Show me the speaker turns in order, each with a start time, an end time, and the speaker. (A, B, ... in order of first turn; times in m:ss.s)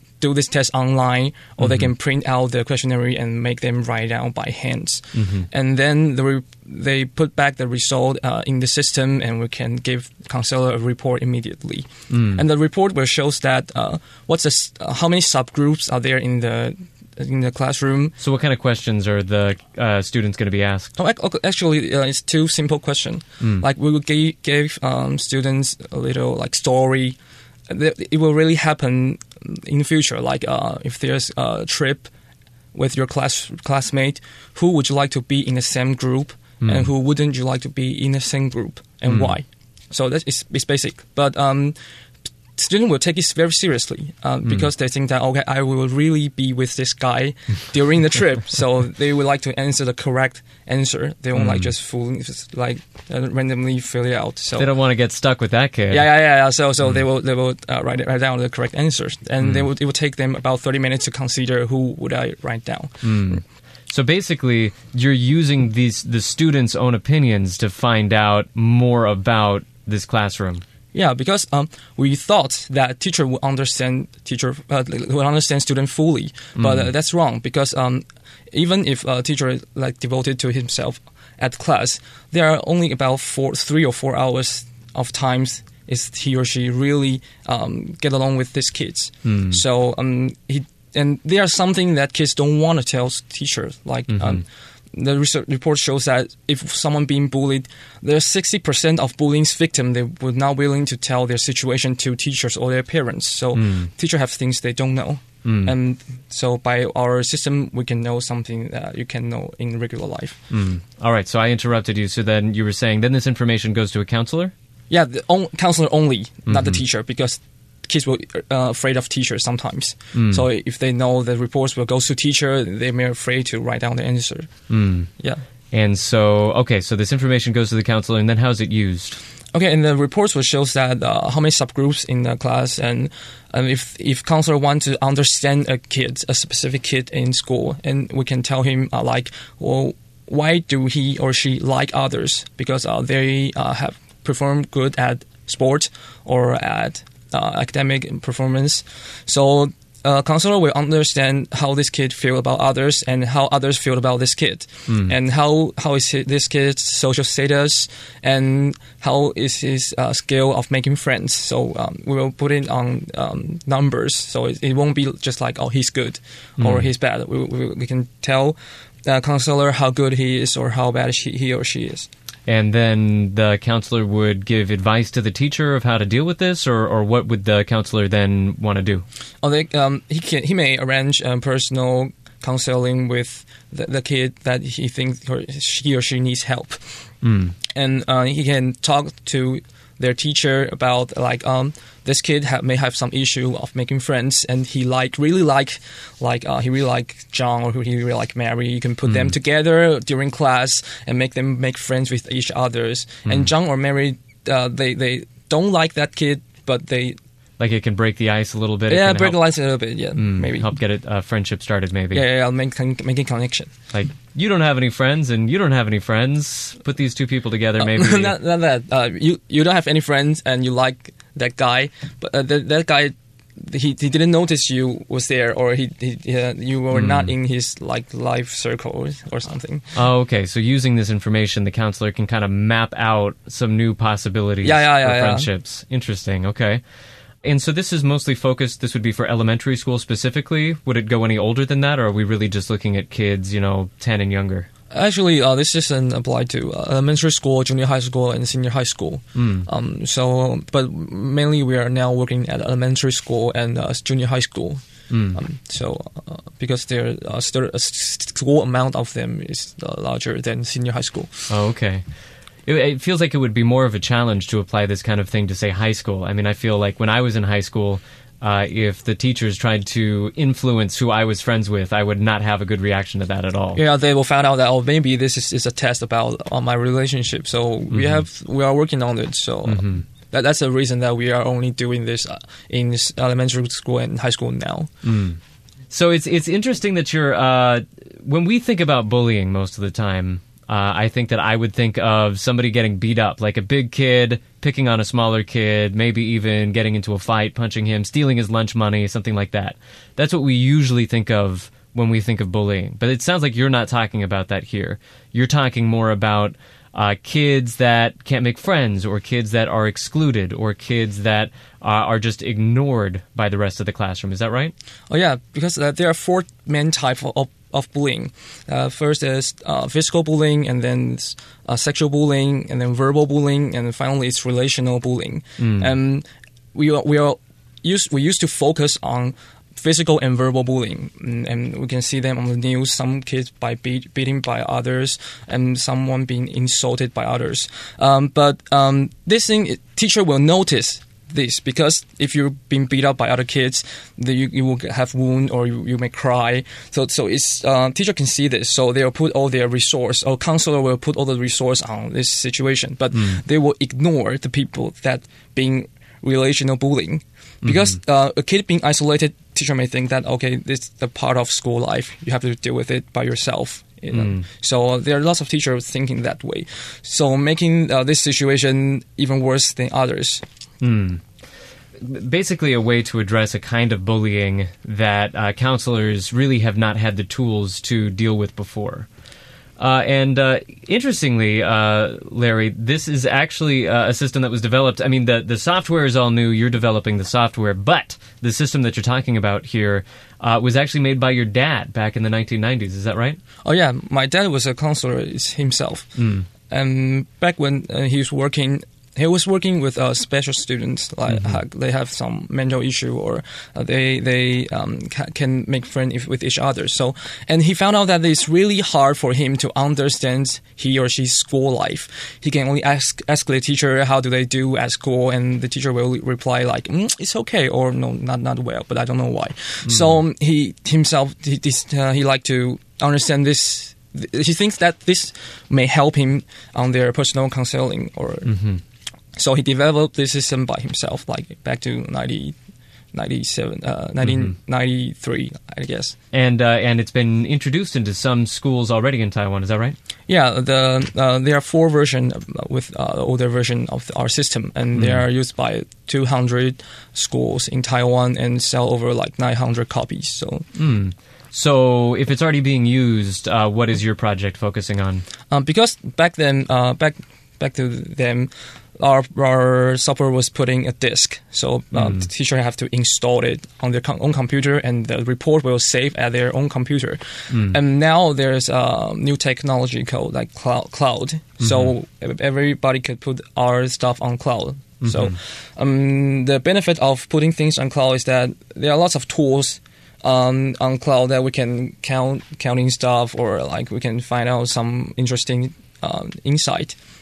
0:00.2-0:18.2 A
0:01.6-0:01.9 B
0:05.2-0:05.5 B
0:12.1-0:12.4 B
0:18.2-0:20.9 B
0:21.0-0:32.1 A
0:23.4-0:23.7 B
0:32.7-0:41.8 A
0:36.6-0:36.9 B
0:39.1-0:39.3 B
0:42.6-0:54.7 A
0:51.4-0:51.7 B
0:54.6-0:56.1 B
0:55.9-1:03.4 A
1:03.0-1:10.6 B
1:10.9-1:50.4 A
1:16.6-1:16.9 B
1:29.2-1:29.6 B
1:34.1-1:34.4 B
1:43.6-1:43.9 B
1:45.4-1:45.7 B
1:50.5-1:54.5 B
1:54.9-2:05.4 A
1:56.5-1:56.8 B
2:00.1-2:00.4 B
2:04.7-2:05.1 B
2:05.7-2:09.2 B
2:09.5-2:52.1 A
2:34.9-2:35.1 B
2:46.6-2:46.9 B
2:52.5-2:59.0 B
2:59.4-3:07.1 A
3:07.2-3:07.6 B
3:07.7-3:27.2 A
3:19.1-3:19.3 B
3:23.2-3:23.5 B
3:27.6-3:29.5 B
3:28.9-3:30.7 A
3:30.2-3:32.2 B
3:32.1-3:33.7 A
3:33.9-3:38.4 B
3:37.8-3:49.9 A
3:46.9-3:47.3 B
3:49.9-3:56.8 B
3:54.6-3:55.5 A
3:57.4-4:04.7 B
4:04.9-4:21.5 A
4:09.4-4:09.7 B
4:15.1-4:15.4 B
4:21.5-4:22.0 B
4:22.7-4:33.8 B
4:33.8-4:44.9 A
4:37.9-4:38.2 B
4:39.7-4:40.1 B
4:45.0-4:45.4 B
4:45.9-5:14.7 B
5:15.1-6:10.4 A
5:25.6-5:25.9 B
5:53.1-5:53.4 B
5:57.6-5:57.9 B
6:04.1-6:04.4 B
6:10.8-6:11.2 B
6:12.0-6:19.1 B
6:19.8-6:33.4 B
6:33.6-7:08.6 A
6:36.2-6:36.5 B
6:41.3-6:41.6 B
6:59.8-7:00.2 B
7:08.5-7:08.8 B
7:09.4-7:12.6 A
7:13.1-7:16.2 A
7:14.2-7:14.5 B
7:16.3-7:20.0 B
7:20.3-7:30.7 A
7:25.0-7:25.2 B
7:30.8-7:35.3 B
7:35.5-8:07.0 A
7:42.0-7:42.3 B
7:47.5-7:47.8 B
7:51.6-7:51.9 B
7:55.0-7:55.4 B